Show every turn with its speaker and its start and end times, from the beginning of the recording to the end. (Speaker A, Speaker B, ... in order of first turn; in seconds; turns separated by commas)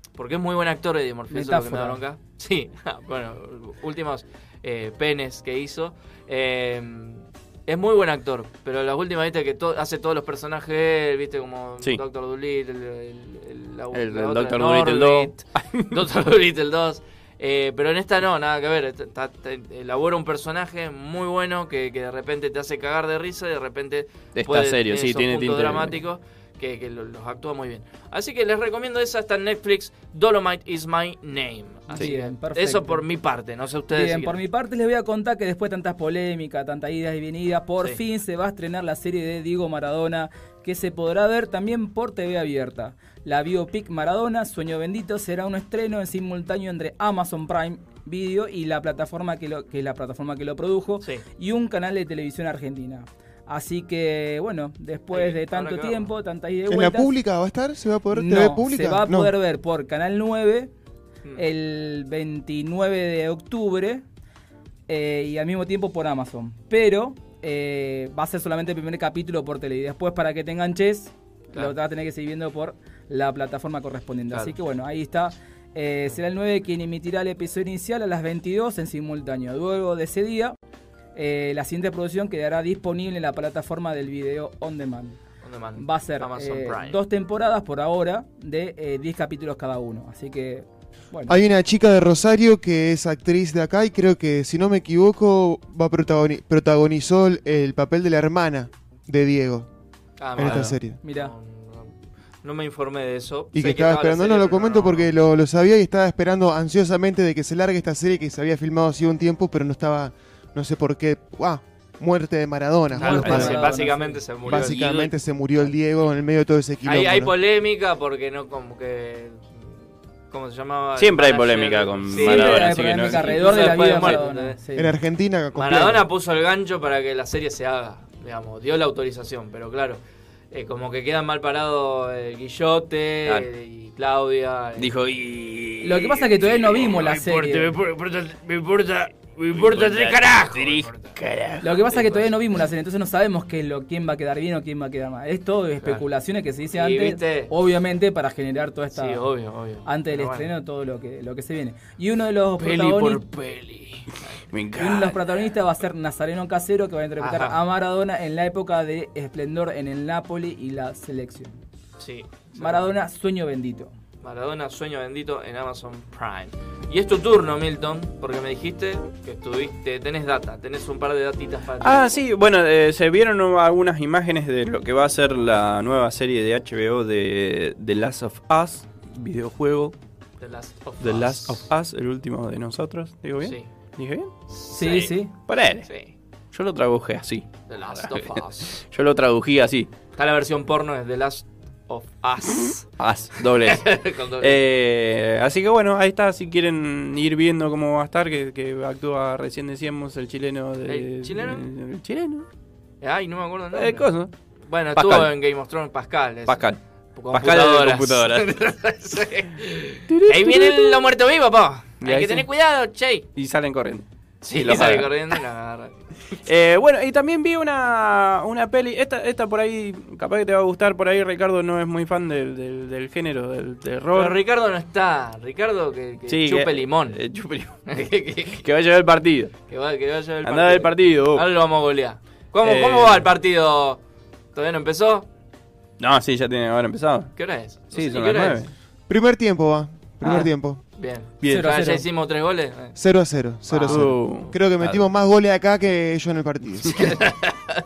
Speaker A: 0.2-34.4, Speaker B: 1.3-2.0, Speaker C: 13.9-16.0, Speaker C: 24.4-26.0, Speaker B: 31.9-33.0, Speaker B: 33.9-57.1, Speaker A: 55.1-56.1, Speaker D: 56.7-59.3, Speaker B: 58.1-60.7, Speaker B: 61.4-64.0, Speaker B: 64.9-80.6, Speaker B: 81.2-85.2, Speaker A: 85.4-87.0, Speaker B: 85.8-91.4, Speaker D: 91.3-99.7, Speaker A: 100.2-101.9, Speaker D: 100.4-101.0, Speaker B: 100.5-101.3, Speaker A: 102.4-105.1, Speaker D: 103.5-113.7, Speaker A: 113.0-115.7, Speaker B: 113.0-114.2, Speaker D: 114.5-117.3, Speaker A: 116.8-119.8, Speaker A: 120.3-124.6, Speaker C: 121.0-124.2, Speaker B: 122.1-124.9, Speaker D: 124.8-126.0, Speaker A: 125.5-130.0, Speaker A: 130.5-134.9, Speaker C: 134.8-136.1, Speaker B: 135.8-137.7, Speaker A: 136.8-141.2, Speaker C: 139.5-141.7, Speaker B: 141.6-149.2, Speaker A: 141.9-142.3, Speaker A: 146.7-147.5, Speaker A: 148.9-150.5, Speaker B: 149.9-153.2, Speaker C: 152.6-153.2, Speaker A: 153.5-154.4, Speaker C: 154.5-155.2, Speaker B: 154.8-161.6, Speaker A: 157.2-157.6, Speaker A: 162.0-162.9, Speaker B: 162.6-163.9, Speaker A: 164.2-172.2, Speaker C: 171.8-179.9, Speaker A: 180.4-181.7, Speaker C: 181.0-184.3, Speaker A: 183.4-183.7, Speaker A: 184.5-185.1, Speaker B: 184.7-185.3, Speaker C: 185.5-185.9, Speaker A: 185.9-186.1, Speaker C: 186.5-189.9, Speaker A: 187.7-188.8, Speaker A: 190.2-192.9, Speaker C: 192.5-193.8, Speaker A: 193.7-194.6, Speaker C: 194.4-202.5, Speaker A: 200.9-201.6, Speaker A: 203.0-204.1, Speaker C: 203.7-204.3, Speaker A: 204.7-213.3, Speaker C: 204.9-205.3, Speaker C: 206.5-206.8, Speaker C: 207.3-208.5, Speaker C: 210.1-211.0, Speaker C: 212.0-212.5, Speaker C: 213.4-215.1, Speaker A: 214.4-216.0, Speaker C: 216.4-224.4, Speaker A: 224.1-227.2, Speaker C: 226.3-227.8, Speaker A: 227.9-228.6, Speaker C: 228.6-229.5, Speaker A: 229.7-234.0, Speaker C: 230.4-231.4, Speaker C: 232.6-233.3, Speaker A: 234.5-235.3, Speaker C: 236.0-237.3, Speaker A: 237.4-238.6, Speaker C: 237.9-238.7, Speaker D: 239.1-240.8, Speaker A: 241.0-243.0, Speaker C: 241.4-241.7, Speaker B: 241.4-242.0, Speaker D: 243.0-247.1, Speaker A: 243.7-244.4, Speaker C: 243.9-245.0, Speaker A: 247.0-247.3